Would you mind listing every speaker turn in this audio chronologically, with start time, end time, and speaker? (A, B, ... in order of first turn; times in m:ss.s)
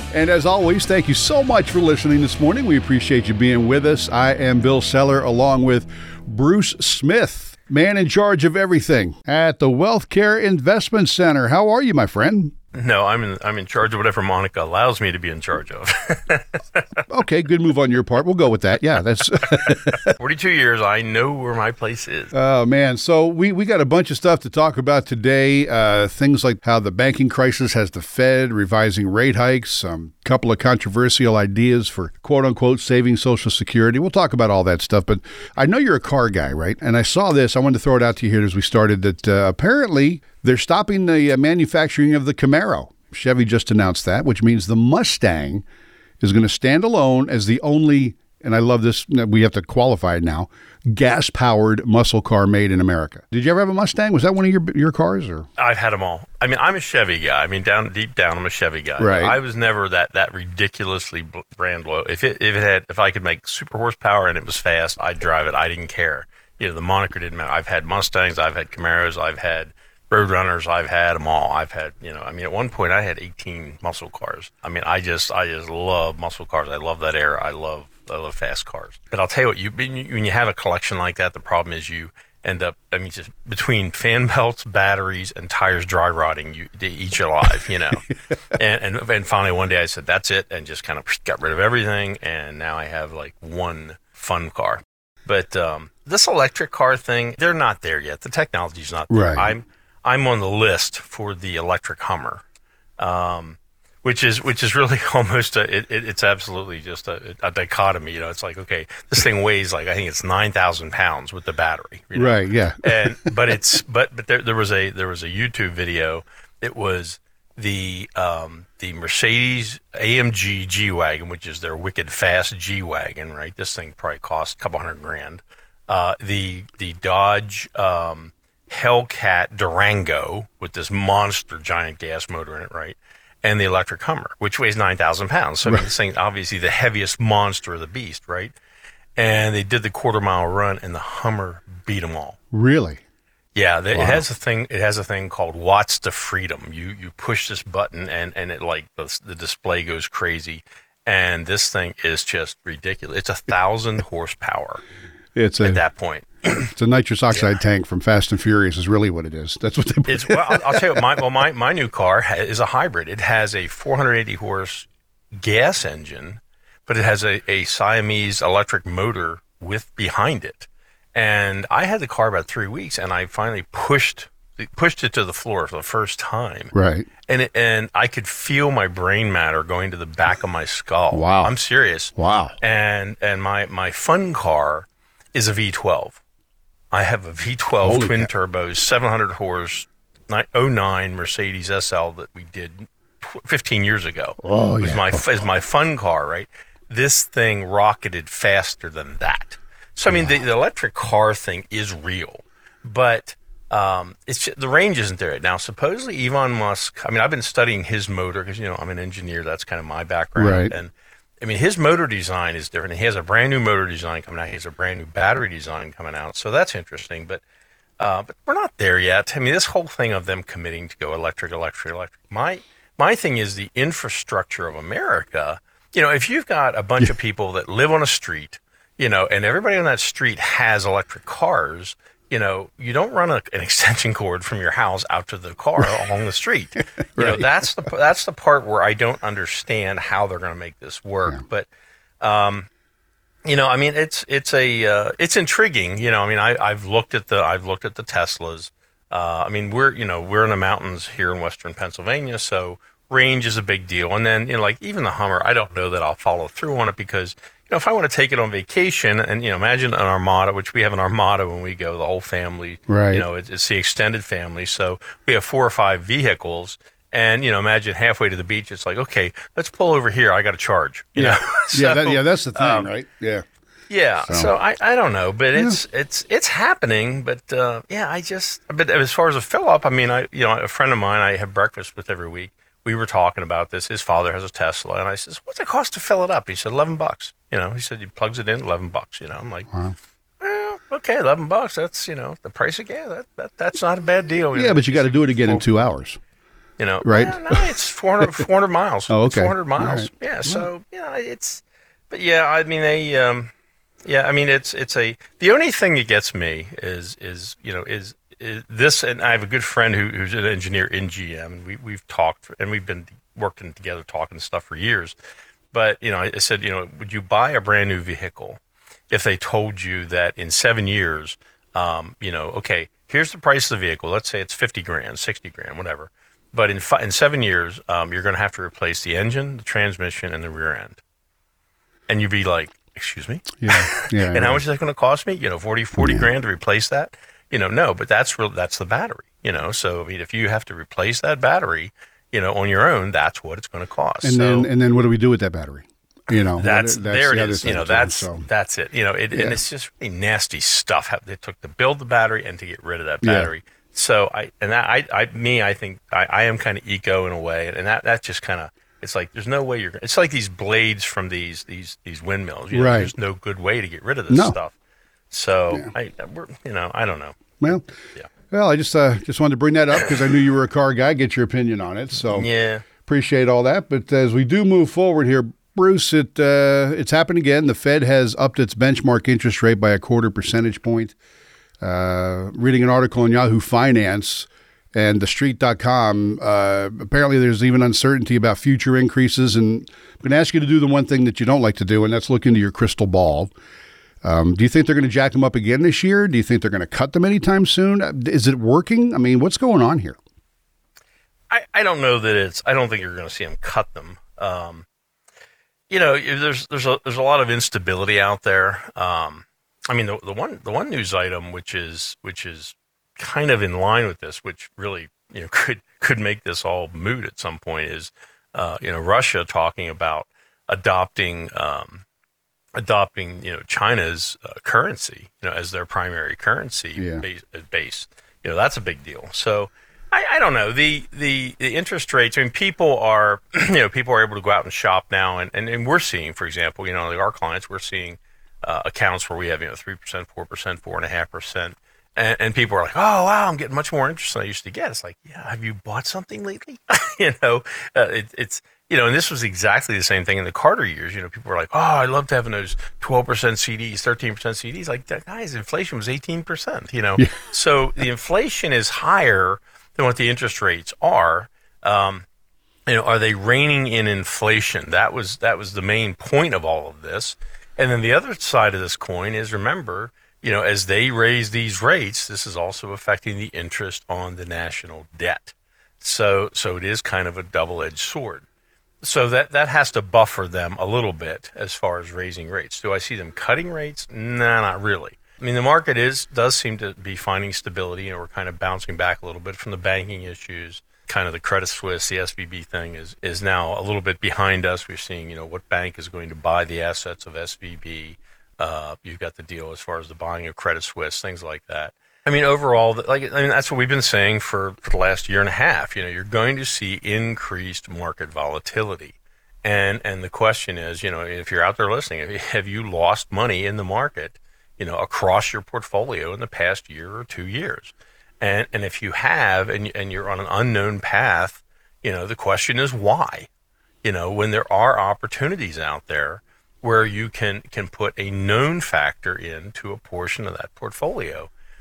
0:00.1-0:12.5 A
0:12.7-0:17.0 B
0:17.1-0:20.1 A
0:20.0-0:22.3 B
0:22.3-0:45.6 A
0:46.2-0:55.5 A
0:55.6-1:42.4 B
0:59.0-0:59.4 A
1:39.1-1:39.5 A
1:43.0-2:18.5 B
1:52.1-1:53.6 A
2:19.2-2:22.4 B
2:22.5-2:23.0 A
2:23.5-2:34.8 B
2:23.9-2:24.2 A
2:35.3-2:35.8 A
2:35.6-2:36.7 B
2:36.7-2:41.2 A
2:40.1-2:56.7 B
2:56.7-2:57.1 A
2:57.3-3:06.2 B
3:01.1-3:01.5 A
3:02.2-3:02.6 A
3:06.9-3:37.4 B
3:07.8-3:08.3 A
3:14.4-3:15.2 A
3:20.1-3:20.4 A
3:30.4-3:30.7 A
3:38.0-4:01.7 B
3:57.2-3:57.6 A
4:02.2-4:02.7 B
4:03.4-4:32.9 B
4:22.9-4:23.3 A
4:31.2-4:33.4 A
4:33.9-4:49.7 B
4:34.2-4:34.5 A
4:35.5-4:35.8 A
4:49.7-4:50.0 A
4:50.4-4:55.7 B
4:54.5-4:56.2 A
4:56.8-5:03.5 B
4:57.0-4:57.6 A
4:59.1-5:00.7 A
5:04.0-5:15.1 B
5:15.7-5:31.0 B
5:32.1-5:44.7 B
5:33.6-5:34.6 A
5:36.0-5:36.3 A
5:44.2-5:48.4 A
5:46.6-6:04.7 B
5:49.3-5:49.6 A
5:53.2-5:53.5 A
6:02.7-6:03.1 A
6:04.3-6:04.6 A
6:05.3-6:08.3 B
6:08.5-6:12.5 A
6:12.2-6:12.8 B
6:13.0-6:21.1 A
6:21.8-6:33.5 A
6:34.2-6:40.2 A
6:41.5-6:44.8 B
6:45.9-7:02.0 B
7:02.7-7:42.2 B
7:07.0-7:07.2 A
7:42.9-7:58.4 B
7:59.0-8:43.5 B
8:44.0-8:51.5 B